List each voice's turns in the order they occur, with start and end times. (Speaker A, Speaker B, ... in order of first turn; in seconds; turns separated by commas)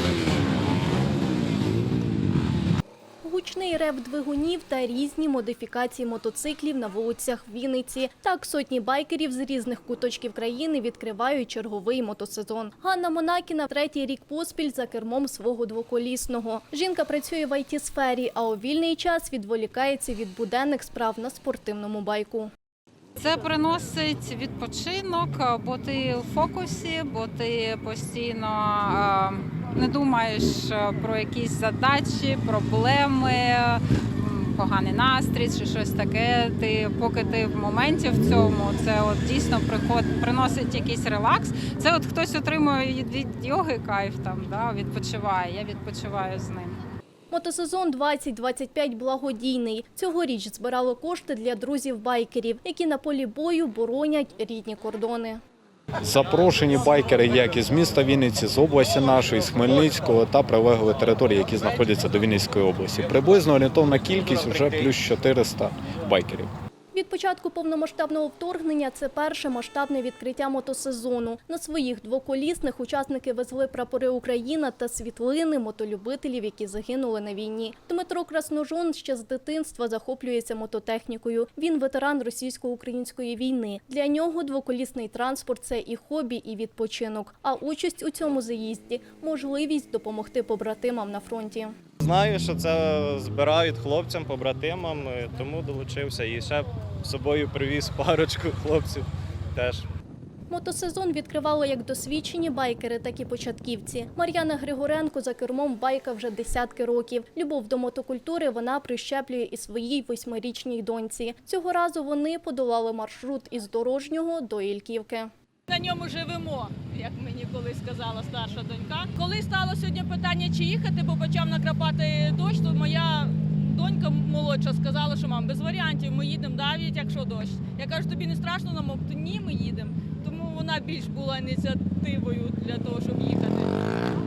Speaker A: 3.2-22.5, Speaker B: 23.2-46.8, Speaker A: 47.3-55.4, Speaker C: 56.0-66.5, Speaker A: 66.9-91.7, Speaker D: 92.0-99.9, Speaker A: 100.5-115.3, Speaker E: 115.7-133.7